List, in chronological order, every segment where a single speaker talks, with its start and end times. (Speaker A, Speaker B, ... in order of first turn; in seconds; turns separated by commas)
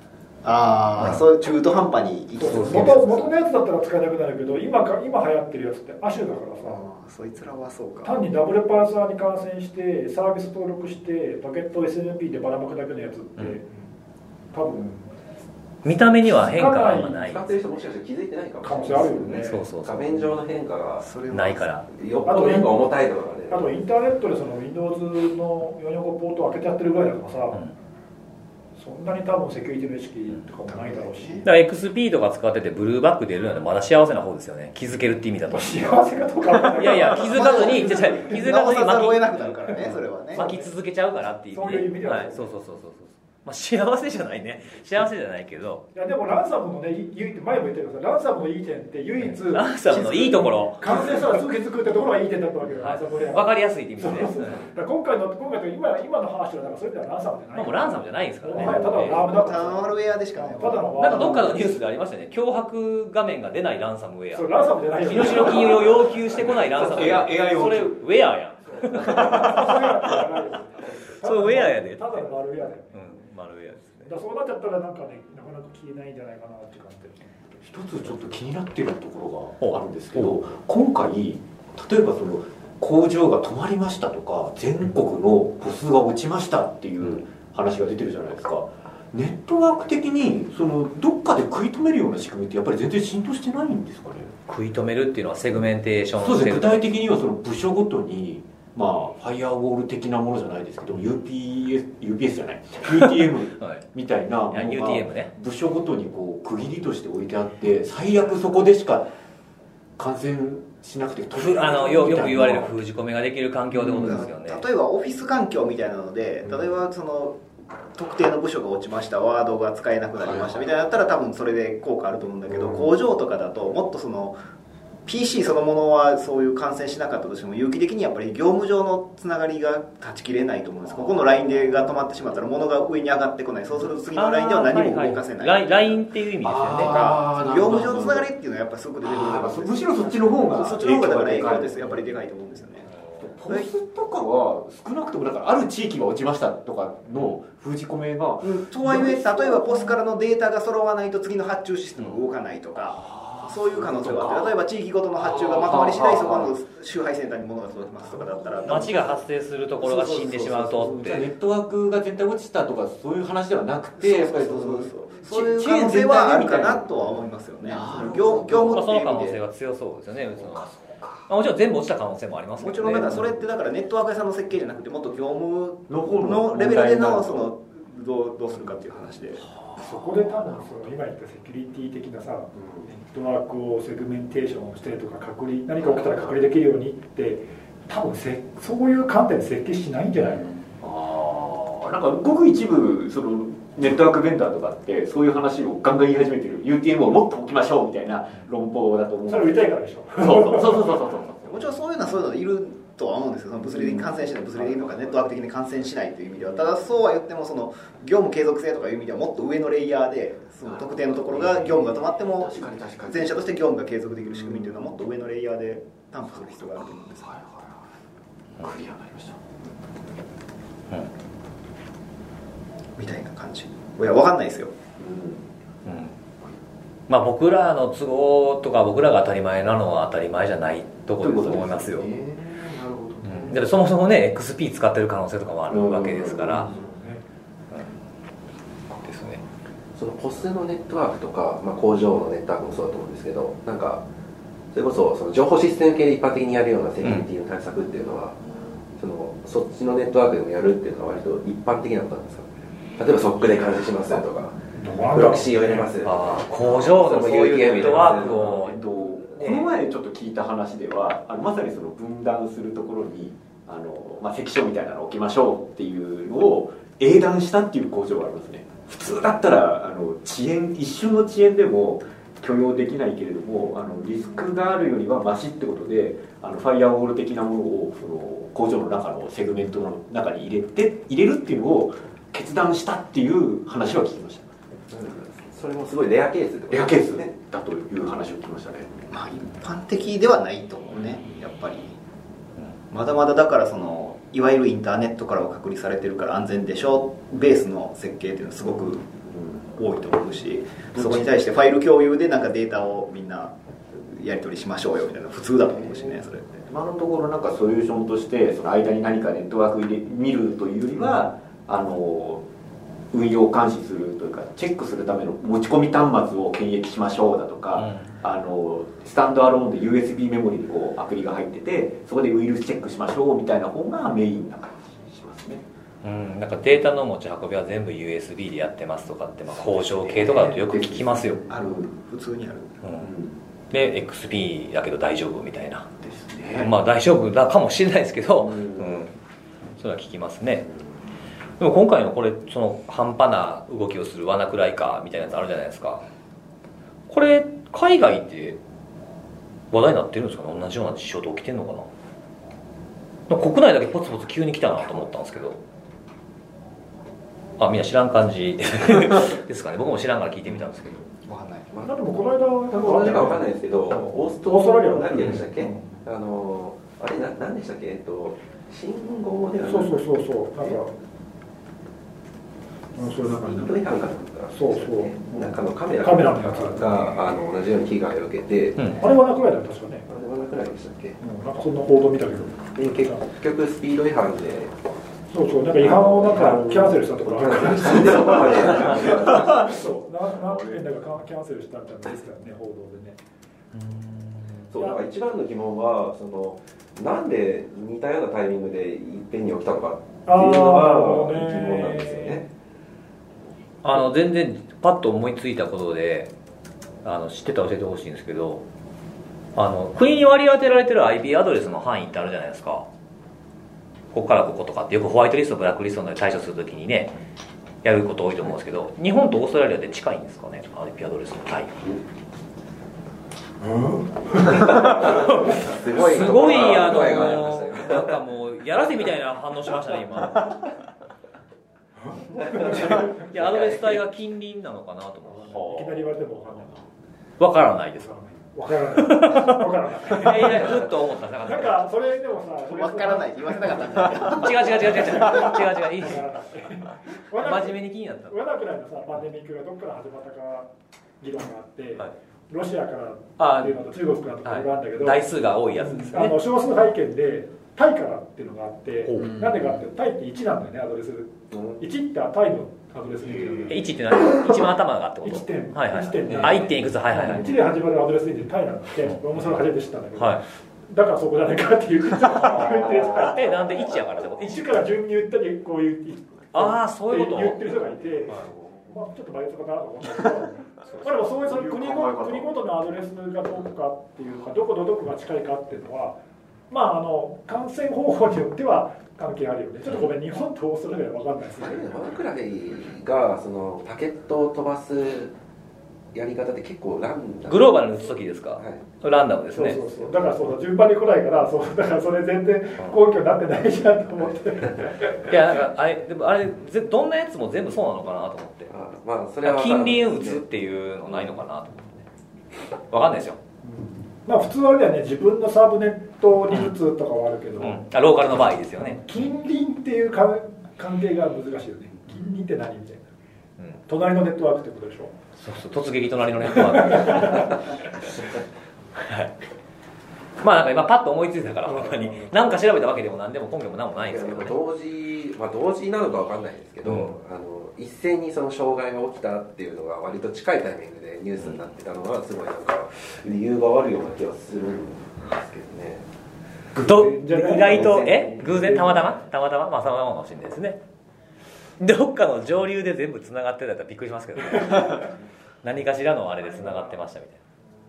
Speaker A: 0.4-3.3, Speaker B: 1.0-1.2, Speaker C: 2.4-6.8, Speaker B: 2.4-3.0, Speaker A: 6.6-8.2, Speaker C: 8.0-13.7, Speaker C: 14.5-15.1, Speaker B: 15.8-17.4, Speaker C: 16.3-17.2, Speaker D: 17.0-21.1, Speaker C: 18.6-19.6, Speaker B: 19.3-20.3, Speaker A: 21.0-21.7, Speaker B: 21.3-21.9, Speaker D: 21.9-23.7, Speaker C: 22.2-22.8, Speaker C: 23.5-27.7, Speaker C: 28.8-31.5, Speaker A: 30.7-31.4, Speaker B: 31.4-36.0, Speaker C: 35.5-38.4, Speaker B: 36.6-45.9, Speaker A: 37.3-40.4, Speaker C: 40.3-40.7, Speaker C: 41.5-42.5, Speaker C: 45.9-61.7, Speaker B: 49.2-51.1, Speaker B: 52.8-54.6, Speaker B: 57.5-59.2, Speaker A: 58.6-61.5, Speaker B: 61.0-64.5, Speaker C: 64.3-66.1, Speaker B: 65.0-70.1, Speaker E: 66.5-68.0, Speaker C: 68.8-73.0, Speaker B: 71.2-74.1, Speaker C: 73.9-78.3, Speaker E: 77.7-94.3, Speaker B: 79.6-80.4, Speaker B: 94.5-96.9, Speaker E: 96.2-109.1, Speaker B: 103.6-103.8, Speaker B: 104.5-105.3, Speaker E: 110.0-112.8, Speaker B: 111.3-114.6, Speaker A: 113.9-117.4, Speaker A: 118.0-124.4, Speaker E: 122.5-122.8, Speaker A: 125.1-136.0, Speaker B: 134.2-137.0, Speaker E: 136.4-138.3, Speaker A: 136.7-142.9, Speaker E: 139.0-142.0, Speaker E: 143.2-150.0, Speaker A: 148.5-159.0, Speaker E: 152.9-154.6, Speaker E: 155.2-156.6, Speaker E: 158.0-159.1, Speaker B: 158.7-161.3, Speaker E: 159.8-167.1, Speaker A: 164.0-169.4, Speaker E: 167.6-168.8, Speaker B: 168.7-170.7, Speaker E: 170.4-171.3, Speaker B: 171.3-173.1, Speaker A: 172.6-179.4, Speaker E: 172.9-173.5, Speaker E: 175.9-177.5, Speaker C: 179.8-190.5, Speaker E: 190.8-201.5, Speaker C: 199.3-201.0, Speaker A: 201.4-217.3, Speaker E: 203.7-205.4, Speaker E: 210.6-213.5, Speaker E: 214.4-215.0, Speaker E: 216.4-217.7, Speaker E: 218.6-219.4, Speaker A: 223.0-224.7, Speaker E: 225.0-225.5, Speaker B: 225.9-226.1, Speaker B: 227.1-232.1, Speaker E: 231.2-233.6, Speaker B: 233.2-236.8, Speaker E: 235.7-237.2, Speaker B: 238.9-239.4, Speaker D: 240.0-244.0, Speaker D: 244.7-248.4, Speaker D: 249.0-254.6, Speaker E: 253.4-254.0, Speaker C: 254.8-256.0, Speaker D: 255.1-256.2, Speaker B: 256.0-258.8, Speaker D: 256.7-258.6, Speaker E: 256.9-284.5, Speaker B: 259.4-259.7, Speaker D: 284.9-287.3, Speaker E: 286.7-289.0, Speaker A: 289.1-292.0, Speaker A: 292.9-299.0, Speaker E: 299.2-299.6, Speaker A: 299.7-306.6, Speaker E: 300.9-301.3, Speaker E: 305.7-312.4, Speaker E: 313.1-325.6, Speaker B: 317.8-318.1, Speaker B: 326.0-331.4, Speaker E: 329.5-331.9, Speaker A: 331.5-332.7, Speaker B: 332.8-333.1, Speaker E: 333.0-333.4, Speaker B: 333.7-335.9, Speaker E: 336.0-336.7, Speaker B: 336.6-339.1, Speaker E: 338.5-338.9, Speaker B: 339.8-340.7, Speaker B: 341.6-346.1, Speaker B: 347.1-348.6, Speaker B: 349.7-351.9, Speaker B: 353.3-355.6, Speaker B: 357.6-361.1, Speaker A: 361.3-361.7, Speaker D: 361.7-362.0, Speaker C: 361.8-363.5, Speaker D: 362.7-370.8, Speaker C: 364.1-366.0, Speaker C: 369.6-370.9, Speaker C: 372.9-373.8, Speaker D: 373.1-379.1, Speaker C: 374.5-377.0, Speaker C: 378.9-380.1, Speaker D: 380.1-381.2, Speaker C: 381.2-383.2, Speaker D: 382.7-384.7, Speaker C: 385.3-393.2, Speaker D: 385.8-389.9, Speaker D: 390.5-390.8, Speaker B: 393.7-394.3, Speaker D: 394.7-402.5, Speaker C: 400.3-402.4, Speaker B: 403.8-406.3, Speaker B: 407.0-408.6, Speaker B: 409.6-412.9, Speaker B: 414.1-417.2, Speaker B: 417.8-422.0, Speaker D: 424.5-428.1, Speaker B: 424.6-430.5, Speaker C: 432.4-433.3, Speaker B: 432.5-435.7, Speaker C: 435.3-436.7, Speaker B: 437.4-438.1, Speaker C: 438.0-444.3, Speaker B: 439.0-441.8, Speaker A: 442.7-444.8, Speaker B: 444.2-446.2, Speaker C: 444.9-450.7, Speaker B: 447.4-448.4, Speaker C: 451.2-455.2, Speaker B: 453.4-453.8, Speaker B: 454.4-456.4, Speaker C: 455.8-463.9, Speaker B: 459.0-459.3, Speaker B: 463.7-467.5, Speaker C: 465.2-486.2, Speaker B: 470.2-470.4, Speaker B: 473.1-474.6, Speaker B: 476.5-477.6, Speaker E: 478.4-478.9, Speaker E: 481.3-482.5, Speaker C: 486.7-491.9, Speaker D: 491.6-495.4, Speaker D: 496.1-497.8, Speaker B: 497.5-499.8, Speaker C: 499.5-505.3, Speaker B: 505.2-508.7, Speaker D: 508.7-510.4, Speaker B: 509.4-512.0, Speaker B: 512.9-513.4, Speaker C: 513.6-517.8, Speaker B: 517.6-519.0, Speaker C: 518.8-523.1, Speaker C: 523.9-525.1, Speaker B: 525.4-528.2, Speaker C: 526.8-527.5, Speaker B: 529.0-529.3, Speaker B: 530.4-534.6, Speaker C: 531.6-532.3, Speaker D: 534.0-546.1, Speaker B: 536.9-537.1, Speaker C: 546.8-549.2, Speaker B: 546.8-550.8, Speaker D: 547.7-548.5, Speaker B: 551.8-557.4, Speaker C: 554.6-555.0